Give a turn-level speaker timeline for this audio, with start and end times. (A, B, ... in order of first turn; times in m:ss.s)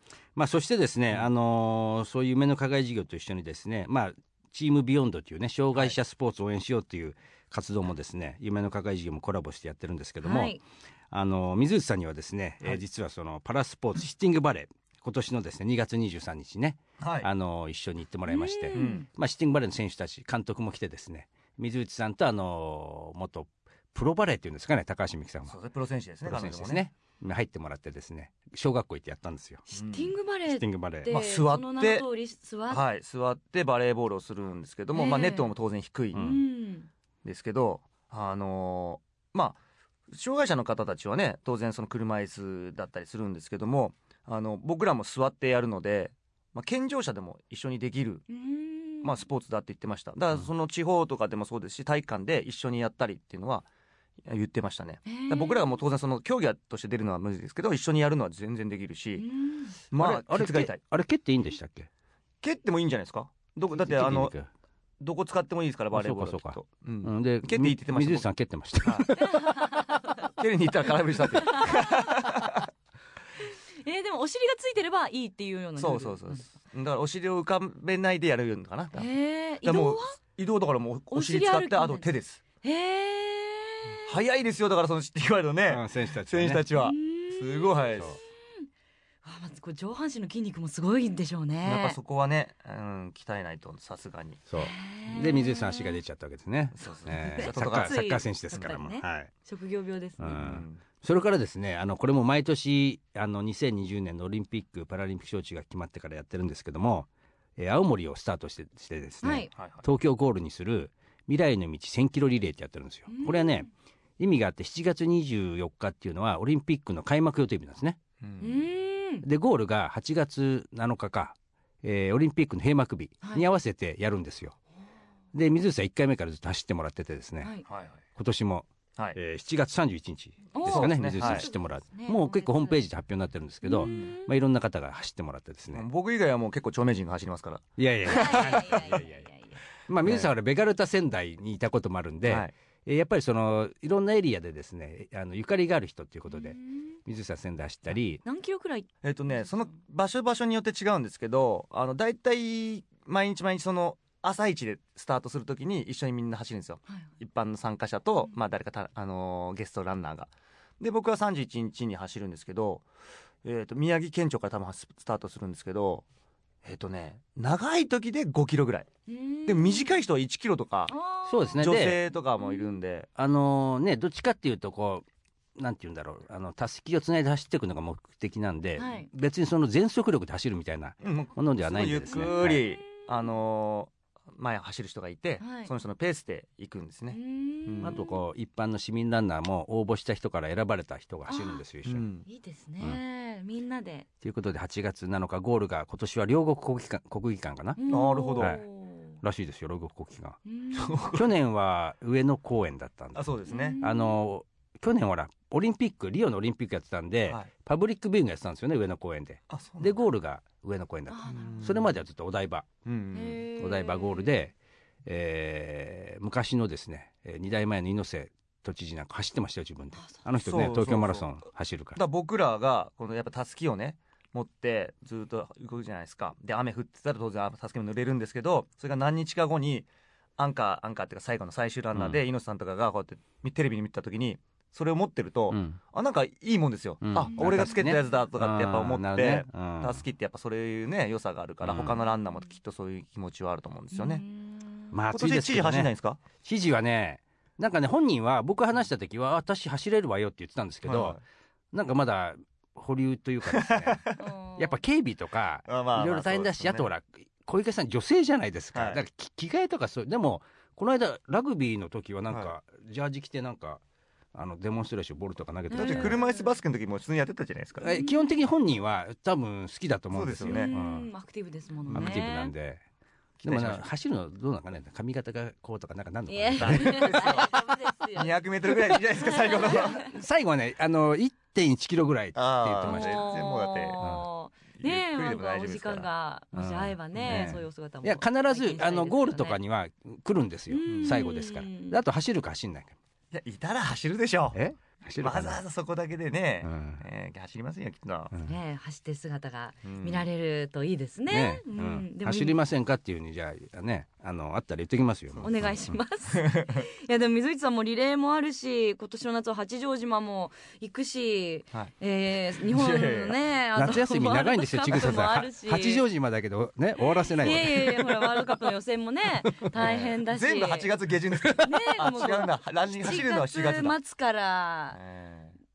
0:00.4-0:10.6 A
0:10.2-0:10.6 B
0:11.1-0:25.6 A
0:17.0-0:17.3 C
0:18.3-0:19.0 B
0:18.7-0:19.0 C
0:25.5-0:26.9 C
0:26.2-0:29.6 A
0:29.7-0:32.8 B
0:29.7-0:30.2 C
0:30.5-0:31.1 A
0:31.1-0:32.1 C
0:32.7-0:36.3 C
0:34.9-0:35.5 B
0:36.1-0:36.4 A
0:36.2-0:36.9 B
0:37.2-0:39.6 C
0:40.1-0:48.2 C
0:48.3-0:49.2 B
0:49.0-0:53.7 C
0:54.2-0:59.3 C
0:55.1-0:55.8 B
0:59.2-0:59.8 B
0:59.9-1:00.8 C
1:00.0-1:01.9 A
1:02.4-1:04.3 C
1:03.7-1:04.5 A
1:05.0-1:08.3 C
1:05.9-1:09.6 A
1:08.8-1:09.1 C
1:09.2-1:10.0 B
1:10.2-1:12.7 C
1:11.5-1:12.3 B
1:13.8-1:16.4 B
1:15.8-1:19.1 C
1:19.0-1:20.2 B
1:19.6-1:22.4 C
1:21.1-1:22.0 B
1:22.6-1:24.1 B
1:24.1-1:28.2 C
1:25.7-1:26.7 A
1:26.7-1:27.9 B
1:29.2-1:32.0 B
1:31.6-1:34.4 C
1:34.5-1:39.3 A
1:34.6-1:36.0 B
1:36.7-1:38.0 C
1:37.3-1:40.4 B
1:40.2-1:53.7 A
1:40.3-1:40.8 C
1:49.2-1:49.5 B
1:49.5-1:49.8 C
1:53.1-1:53.7 B
1:54.2-1:58.0 A
1:58.2-1:58.6 C
1:58.4-1:59.3 B
1:59.2-2:04.6 A
2:03.2-2:03.5 B
2:05.3-2:07.5 A
2:07.7-2:08.0 C
2:08.2-2:15.9 A
2:10.5-2:12.8 B
2:10.6-2:11.5 C
2:13.6-2:14.3 B
2:13.8-2:14.1 C
2:15.7-2:19.0 C
2:17.8-2:19.1 A
2:18.0-2:19.6 B
2:19.9-2:28.2 A
2:20.0-2:20.3 C
2:22.2-2:22.5 C
2:26.3-2:27.0 B
2:28.2-2:28.9 B
2:29.0-2:42.8 C
2:43.4-2:46.0 C
2:46.6-2:48.9 C
2:49.1-2:49.9 B
2:49.5-2:50.9 C
2:50.9-2:51.8 B
2:51.3-2:52.0 A
2:51.6-2:53.1 C
2:53.2-2:55.0 A
2:55.6-3:02.6 A
2:58.8-2:59.1 B
3:01.0-3:08.0 C
3:05.4-3:05.7 B
3:07.1-3:08.2 B
3:07.8-3:12.1 A
3:11.3-3:11.6 B
3:11.9-3:12.3 C
3:12.3-3:14.1 B
3:14.2-3:17.8 A
3:17.8-3:19.2 B
3:17.9-3:18.6 C
3:18.4-3:18.6 A
3:19.2-3:20.4 A
3:20.5-3:21.1 B
3:20.7-3:21.3 C
3:21.0-3:23.2 A
3:23.2-3:23.8 C
3:23.5-3:24.2 B
3:23.8-3:32.7 A
3:29.5-3:30.0 C
3:31.1-3:31.6 B
3:31.3-3:32.0 C
3:32.8-3:33.5 C
3:33.1-3:34.4 B
3:33.6-3:34.5 A
3:35.0-3:42.0 A
3:40.0-3:40.2 B
3:40.4-3:41.4 C
3:42.0-4:04.2 C
3:51.9-3:52.2 A
3:55.5-3:55.8 A
3:57.0-4:00.0 A
3:57.2-3:57.6 B
4:01.6-4:02.0 A
4:03.9-4:05.0 B
4:04.9-4:11.2 A
4:05.1-4:06.2 C
4:10.8-4:11.2 C
4:11.7-4:23.8 A
4:13.4-4:14.2 C
4:14.2-4:14.8 B
4:15.7-4:16.9 C
4:18.7-4:19.0 C
4:24.3-4:26.2 A
4:25.7-4:26.6 B
4:25.7-4:27.9 C
4:27.8-4:31.1 A
4:27.8-4:28.3 B
4:30.1-4:30.7 C
4:30.4-4:32.5 B
4:31.9-4:32.2 C
4:31.9-4:32.8 A
4:33.4-4:33.8 C
4:33.4-4:37.7 A
4:36.3-4:38.3 B
4:36.6-4:37.6 C
4:38.2-4:40.1 C
4:39.0-4:40.1 B
4:39.0-4:43.4 A
4:42.4-4:44.1 C
4:42.9-4:49.6 B
4:44.0-4:44.3 A
4:44.8-4:46.1 C
4:46.5-4:53.0 A
4:50.7-4:52.0 B
4:50.9-4:51.2 C
4:53.3-4:54.6 C
4:54.5-4:55.6 A
4:55.2-4:58.3 C
4:56.6-4:57.0 A
4:58.4-5:02.6 B
4:59.8-5:00.3 C
5:01.3-5:06.0 A
5:05.4-5:16.0 B
5:06.3-5:06.8 C
5:12.7-5:13.4 C
5:13.8-5:18.7 A
5:17.3-5:20.9 B
5:19.4-5:20.1 A
5:19.8-5:24.0 C
5:21.4-5:21.7 A
5:21.6-5:25.0 B
5:24.9-5:25.6 C